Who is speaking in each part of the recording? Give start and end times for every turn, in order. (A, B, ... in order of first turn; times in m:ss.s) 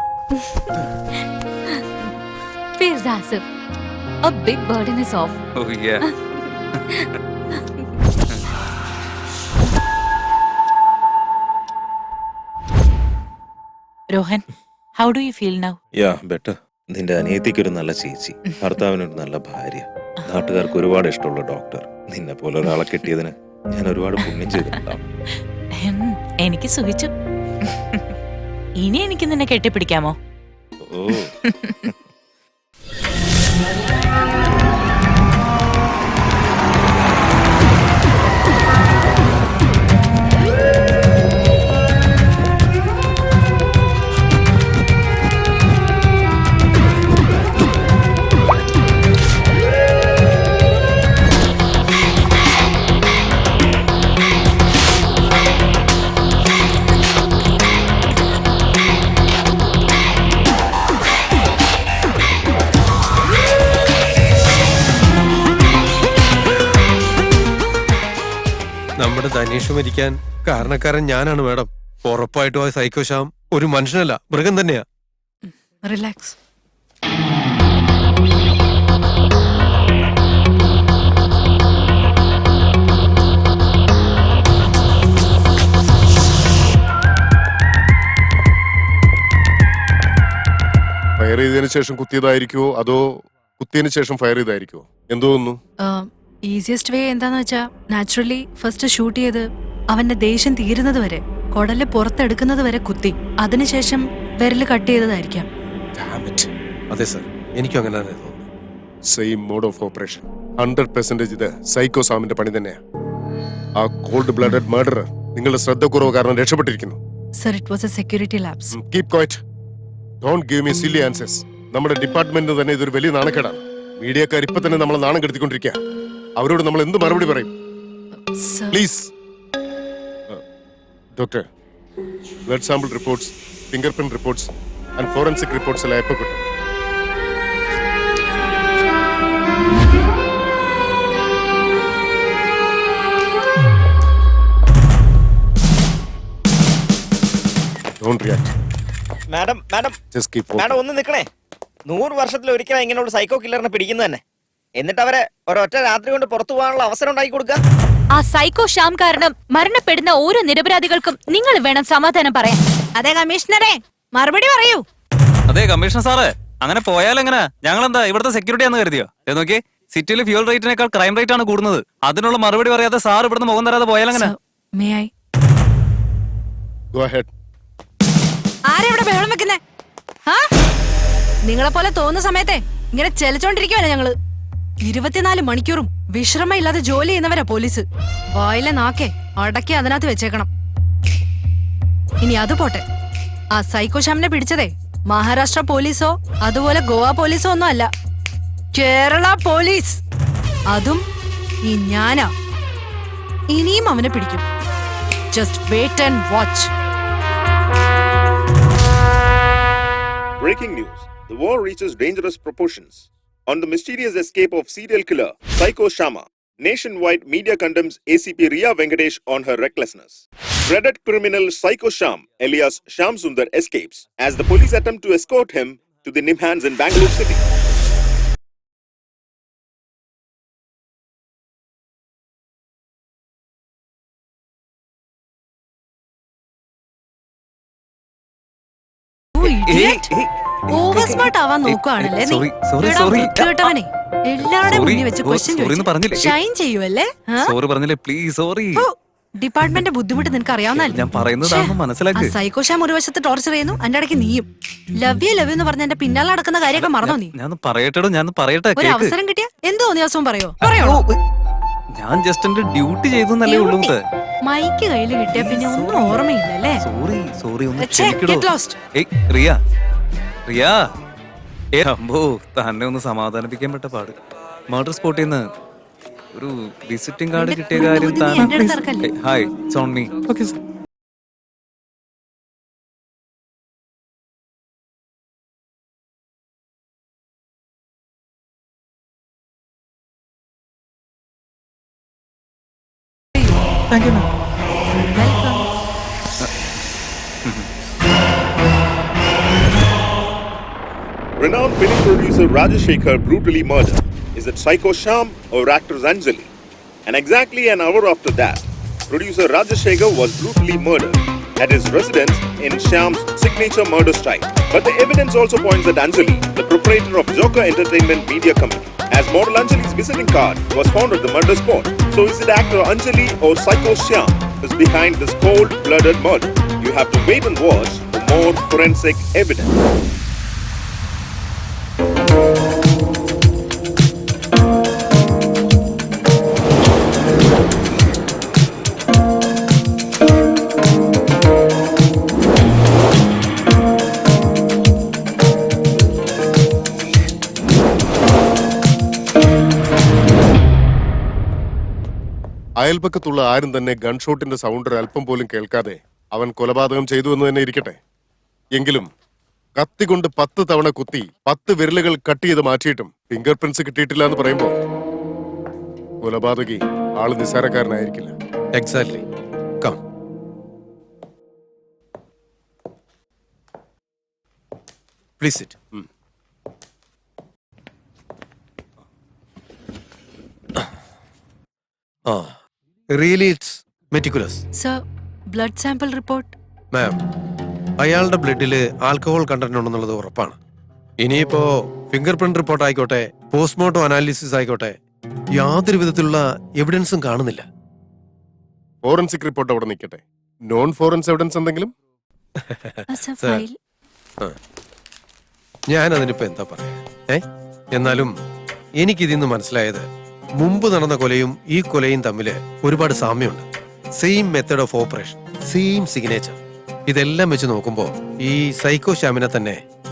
0:01.7-0:02.1 A
0:02.8-0:03.4 A
0:04.2-0:05.4 A
0:05.6-0:06.1 B
0:06.9-0:07.6 A
0:14.1-0:14.4 C
0:15.0-0:15.8 C
0:15.9-0:25.0 D
0:25.8-0:27.1 C
0:28.8-0:30.1 C
0:30.8-0:31.3 D
0:31.5-0:31.8 C
1:09.0-1:14.8 E
1:15.4-1:16.4 F
1:31.2-1:35.6 G
1:35.8-1:45.5 F
1:46.0-1:46.5 G
1:46.9-1:48.4 E
1:49.1-1:52.8 G
1:53.8-1:57.0 G
1:57.4-1:58.8 F
1:58.7-1:59.4 G
2:00.2-2:05.8 G
2:06.4-2:07.5 G
2:08.3-2:08.8 F
2:08.7-2:09.1 G
2:11.2-2:11.4 G
2:12.5-2:16.4 G
2:28.0-2:28.5 G
2:29.3-2:30.0 H
2:30.1-2:30.8 G
2:30.5-2:31.3 H
2:31.8-2:34.2 H
2:34.8-2:37.6 H
2:38.1-2:42.6 A
2:43.0-2:44.8 F
2:45.5-2:54.3 B
2:54.1-2:55.1 F
2:56.9-2:57.3 G
2:58.7-2:59.6 F
3:01.4-3:04.1 F
3:04.8-3:10.5 F
3:12.2-3:12.8 F
3:13.6-3:17.9 F
3:18.7-3:20.0 F
3:20.7-3:21.0 F
3:21.6-3:22.3 F
3:23.5-3:24.4 F
3:25.3-3:26.7 F
3:30.4-3:47.4 I
3:59.3-4:00.1 F
3:59.4-4:03.7 B
4:00.7-4:07.5 F
4:04.4-4:06.3 B
4:07.4-4:08.8 B
4:08.7-4:17.3 F
4:10.7-4:12.3 B
4:16.8-4:19.1 B
4:18.8-4:21.0 F
4:20.6-4:21.2 B
4:21.9-4:24.0 B
4:23.4-4:26.8 F
4:25.3-4:26.2 B
4:26.8-4:29.6 B
4:27.8-4:28.8 F
4:30.5-4:30.8 B
4:31.8-4:34.2 B
4:34.7-4:35.4 B
4:36.3-4:40.5 B
4:37.3-4:39.1 F
4:53.9-4:54.2 B
4:55.1-4:55.7 F
5:01.4-5:06.5 I
5:07.0-5:29.7 I
5:52.8-5:58.0 G
5:58.7-5:59.1 G
5:59.8-6:04.8 G
6:06.2-6:08.3 G
6:08.7-6:09.2 E
6:15.4-6:15.7 E
6:22.3-6:22.6 E
6:23.1-6:24.6 E
6:24.8-6:26.5 F
6:26.9-6:27.2 E
6:28.0-6:30.6 E
6:31.2-6:35.0 E
6:35.5-6:37.6 E
6:39.0-6:41.9 G
6:42.6-6:43.6 E
6:43.1-6:43.8 F
6:45.9-6:48.3 E
6:49.0-6:50.0 E
6:50.6-6:53.6 E
6:54.2-6:59.8 E